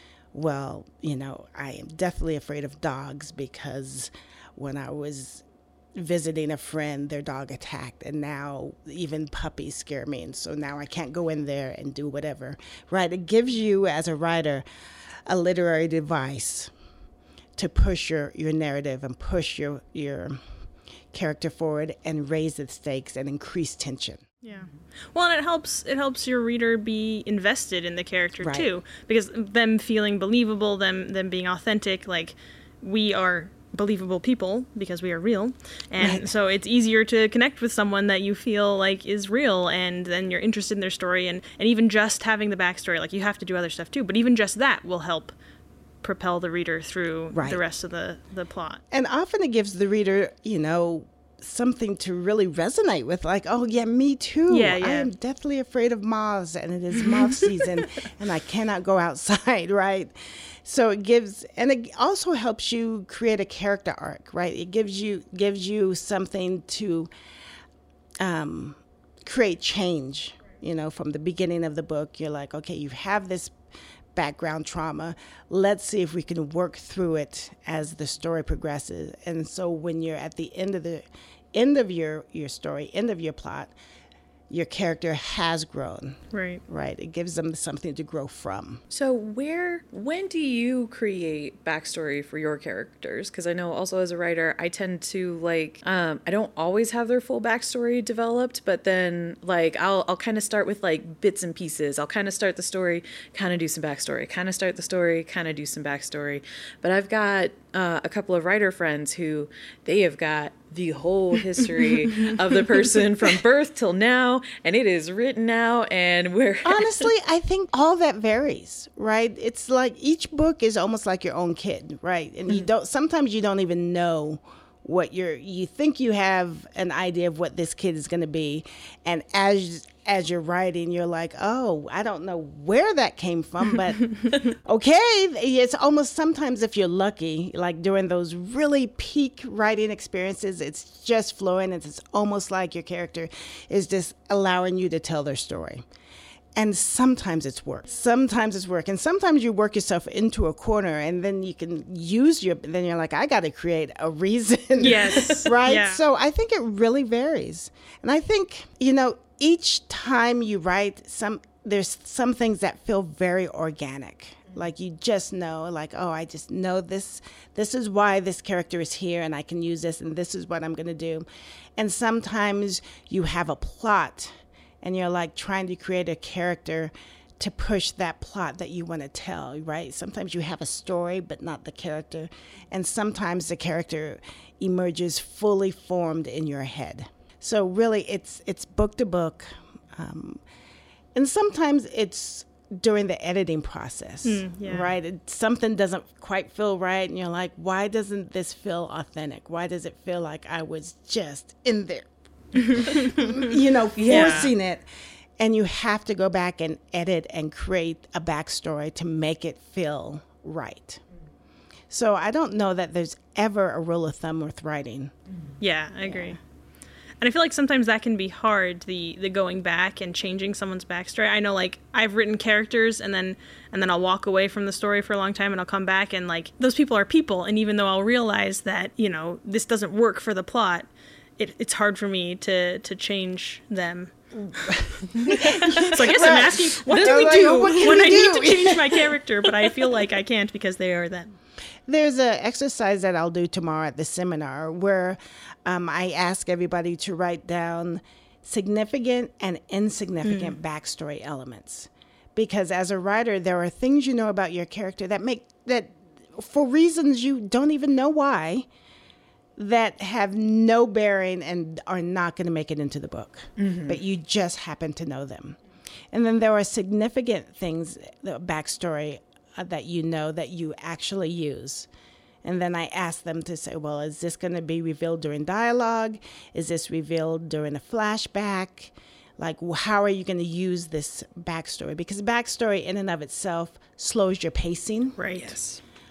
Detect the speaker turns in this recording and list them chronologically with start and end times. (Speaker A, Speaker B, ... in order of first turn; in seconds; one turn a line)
Speaker A: 0.3-14.7
Speaker A: 15.3-16.7
Speaker A: 17.6-20.4
Speaker A: 21.1-24.2
Speaker B: 24.4-45.3
Speaker A: 28.4-28.7
Speaker A: 36.0-36.3
Speaker B: 46.0-48.8
Speaker A: 47.3-47.6
Speaker A: 48.9-67.1
Speaker B: 54.5-55.1
Speaker A: 68.2-73.6
Speaker A: 74.2-83.7
Speaker A: 84.5-88.8
Speaker B: 86.3-86.6
Speaker C: 88.9-117.1
Speaker A: 116.6-145.8
Speaker A: 146.6-190.4
Speaker B: 154.8-156.0
Speaker A: 191.1-202.1
Speaker B: 194.2-194.9
Speaker B: 202.6-203.4
Speaker A: 202.7-204.8
Speaker C: 204.0-204.5
Speaker B: 204.1-204.5
Speaker A: 205.4-211.0
Speaker A: 211.9-215.1
Speaker B: 215.6-216.4
Speaker A: 216.0-216.4
Speaker B: 217.2-234.1
Speaker A: 234.4-239.9
Speaker B: 235.1-241.3
Speaker A: 241.9-258.7
Speaker B: 250.2-250.6
Speaker A: 259.6-265.6
Speaker C: 263.6-264.0
Speaker A: 266.1-271.9
Speaker A: 272.4-285.2
Speaker B: 285.2-285.8